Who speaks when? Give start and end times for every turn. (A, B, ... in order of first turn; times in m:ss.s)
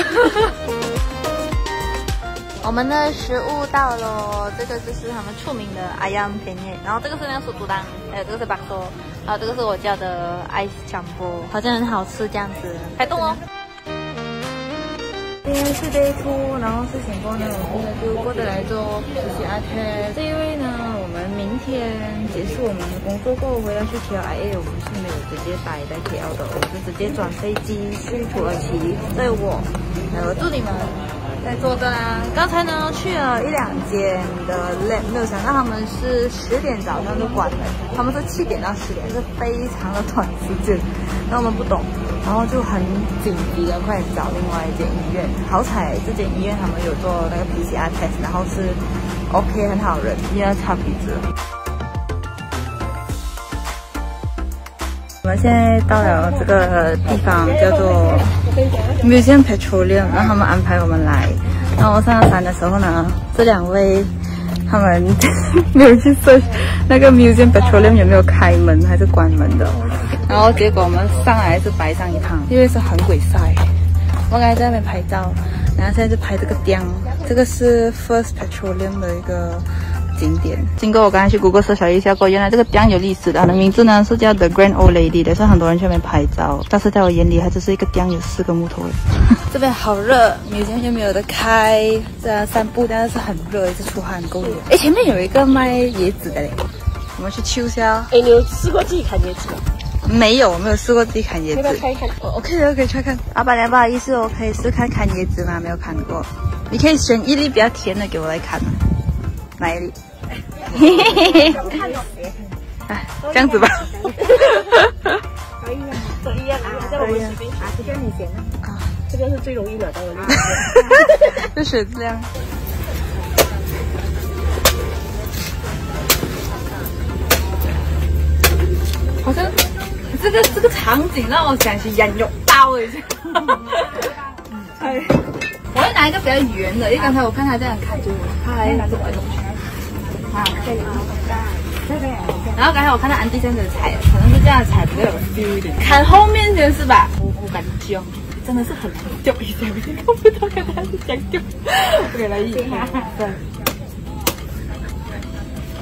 0:02.6-0:13.4 A
0:15.4-0:51.2 A
0:55.2-0:58.4 A
0:57.2-0:59.0 B
0:59.0-1:04.1 A
1:04.6-1:13.7 A
1:14.3-1:36.6 A
1:37.2-1:38.1 A
1:38.1-1:39.6 B
1:40.0-1:48.8 A
1:41.5-1:42.2 B
1:49.6-1:49.9 A
1:50.7-1:51.8 A
1:50.7-1:52.5 B
1:52.9-1:54.2 A
1:54.2-1:54.7 B
1:55.6-1:58.1 B
1:57.0-1:57.4 A
1:58.6-1:58.9 A
1:59.1-2:01.4 B
2:00.6-2:02.3 A
2:09.2-2:09.6 A
2:10.1-2:14.1 A
2:14.7-2:19.5 A
2:20.5-2:21.6 B
2:22.5-2:33.4 A